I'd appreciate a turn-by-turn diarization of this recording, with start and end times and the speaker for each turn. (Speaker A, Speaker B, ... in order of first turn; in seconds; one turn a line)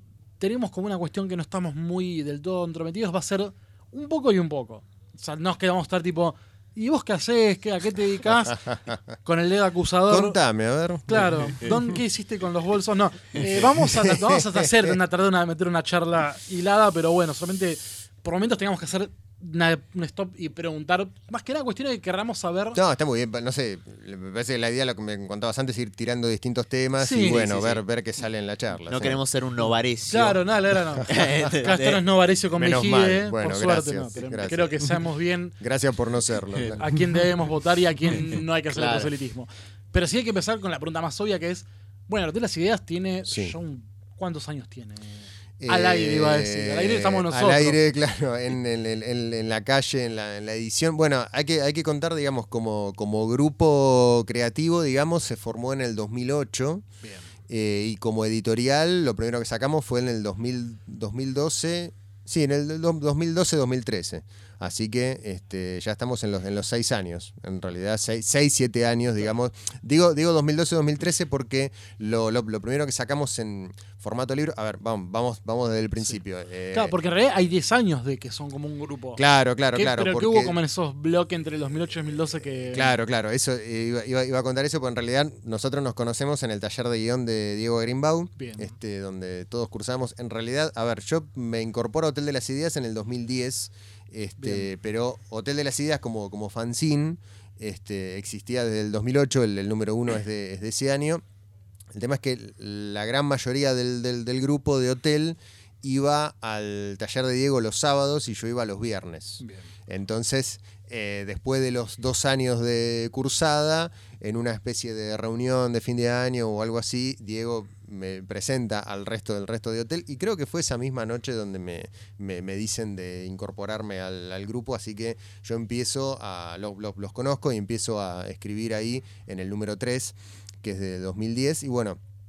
Speaker A: 0.4-8.6
Speaker B: 8.4-9.0
Speaker A: 9.2-10.4
Speaker B: 10.1-11.9
Speaker A: 11.1-22.8
Speaker B: 13.4-15.0
Speaker B: 22.7-29.2
Speaker A: 27.0-27.4
Speaker C: 27.2-27.8
Speaker C: 28.9-30.4
Speaker A: 30.1-35.5
Speaker B: 31.0-31.5
Speaker C: 31.1-32.0
Speaker B: 32.5-34.8
Speaker B: 35.6-36.8
Speaker A: 36.8-47.8
Speaker C: 38.7-39.1
Speaker B: 43.3-43.5
Speaker B: 45.6-56.8
Speaker A: 57.0-57.3
Speaker B: 57.5-76.9
Speaker A: 76.7-79.2
Speaker B: 79.2-80.5
Speaker A: 79.7-82.9
Speaker B: 82.7-101.2
Speaker A: 88.4-88.7
Speaker A: 94.4-94.7
Speaker B: 101.9-132.0
Speaker A: 109.4-109.7